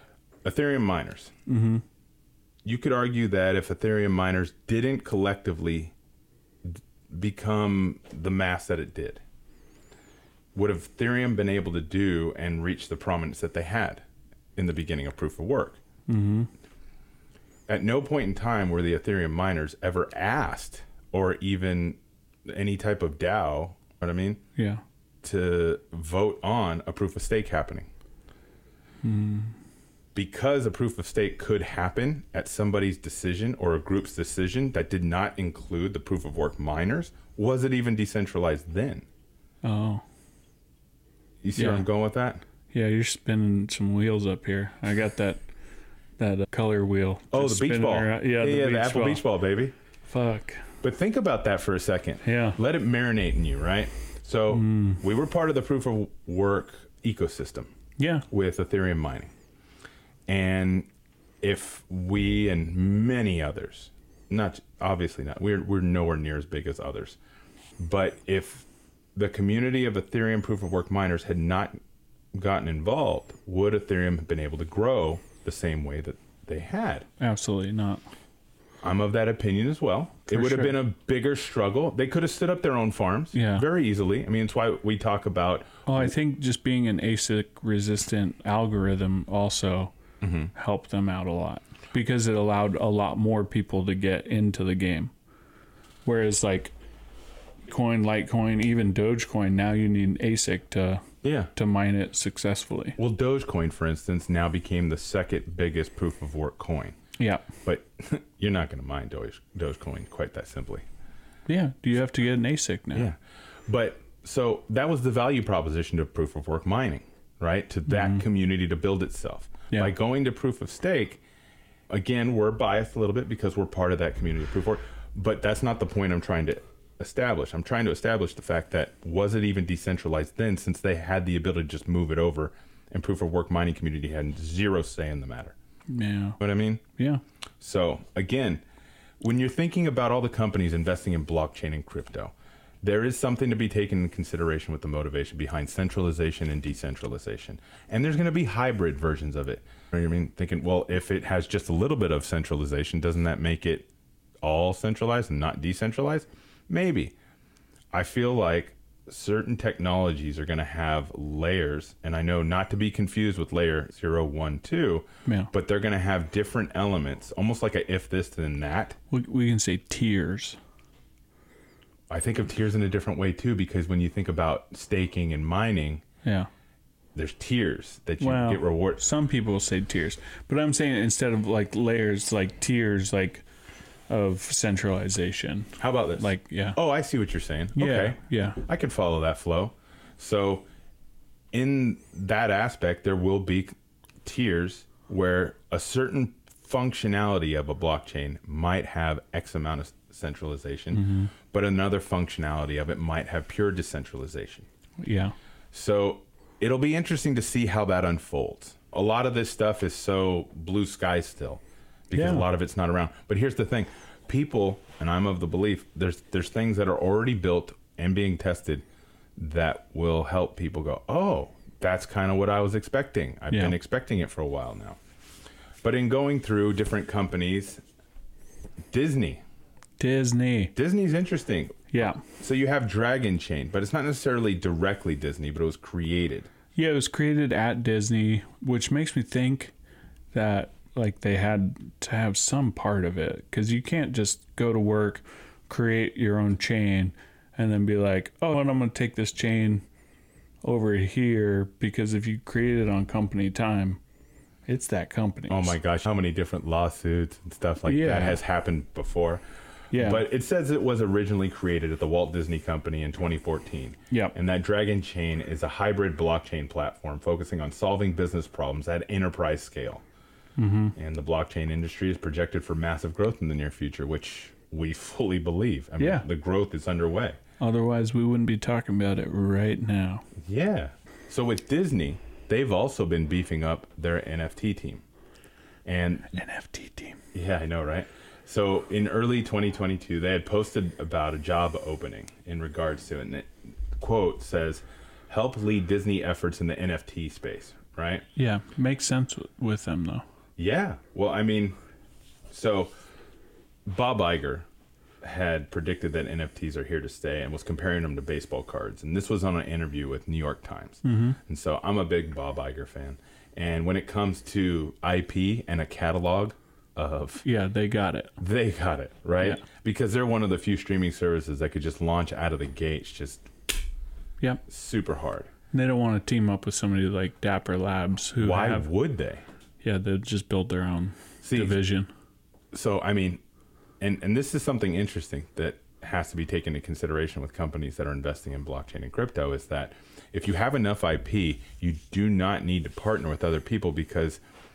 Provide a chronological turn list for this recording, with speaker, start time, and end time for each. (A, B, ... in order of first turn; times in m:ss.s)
0:00.4-0:01.3 A
0:01.4-0:01.8 B
0:02.6-0:05.9 A
0:06.6-0:09.2 A
0:10.5-0:14.0 A
0:14.6-0:15.8 A
0:16.1-0:16.5 B
0:17.7-0:24.4 A
0:24.6-0:24.8 B
0:25.2-0:27.9 A
0:29.0-0:29.5 B
0:30.1-0:39.1 A
0:39.6-0:40.0 B
0:41.4-0:42.4 A
0:41.6-0:41.8 B
0:42.7-0:45.4 B
0:46.2-0:49.2 B
0:47.3-0:49.7 A
0:50.1-0:50.7 B
0:50.8-0:57.7 A
0:52.2-0:52.6 B
0:54.5-0:55.0 B
0:58.0-0:58.2 B
0:58.3-0:59.3 A
1:00.3-1:00.9 A
1:01.4-1:07.2 A
1:07.8-1:11.7 A
1:12.3-1:17.1 A
1:17.2-1:18.0 B
1:18.8-1:26.1 A
1:20.3-1:20.8 B
1:23.3-1:23.7 B
1:25.8-1:29.9 B
1:30.2-1:30.5 A
1:30.5-1:35.1 B
1:36.0-1:36.7 B
1:37.7-1:43.0 B
1:41.2-1:41.5 A
1:43.0-1:47.0 A
1:47.2-1:47.5 B
1:47.6-1:50.8 A
1:51.5-1:53.1 B
1:52.9-2:01.2 A
1:57.9-1:58.2 B
2:01.9-2:15.5 A
2:15.9-2:16.4 B
2:16.4-2:16.8 A
2:17.0-2:17.2 B
2:17.6-2:18.6 A
2:19.2-2:33.9 A
2:34.4-2:37.1 A
2:37.9-2:49.0 A
2:45.2-2:45.5 B
2:49.1-2:50.6 B
2:52.1-2:56.0 A
2:56.2-2:56.5 B
2:57.1-2:59.0 A
2:58.2-3:03.4 B
3:04.1-3:06.8 B
3:05.8-3:10.7 A
3:07.8-3:08.6 B
3:11.5-3:24.7 A
3:20.9-3:21.3 B
3:25.0-3:25.3 B
3:25.7-3:38.8 A
3:32.1-3:32.5 B
3:39.4-3:45.0 A
3:43.5-3:43.8 B
3:45.8-3:47.8 A
3:48.9-3:49.4 A
3:50.0-3:50.7 B
3:50.7-3:56.5 A
3:51.9-3:52.2 B
3:56.8-3:59.7 B
4:00.3-4:09.8 B
4:10.6-4:14.0 B
4:14.7-4:15.8 B
4:15.5-4:19.4 A
4:17.8-4:18.4 B
4:19.9-4:20.2 B
4:19.9-4:30.0 A
4:30.6-4:30.9 B
4:31.0-4:37.4 A
4:36.0-4:36.2 B
4:37.6-4:40.2 B
4:40.4-4:45.0 A
4:45.8-4:46.3 A
4:46.3-4:47.2 B
4:47.3-4:58.2 A
4:58.4-5:00.2 B
5:00.6-5:01.8 A
5:02.5-5:02.9 A
5:03.8-5:04.6 A
5:05.2-5:17.4 A
5:11.0-5:11.4 B
5:17.4-5:18.4 B
5:18.4-5:23.5 A
5:24.7-5:25.5 A
5:25.7-5:28.9 B
5:28.4-5:29.4 A
5:29.8-5:32.1 B
5:31.4-5:31.8 A
5:32.7-5:33.4 A
5:34.0-5:44.4 A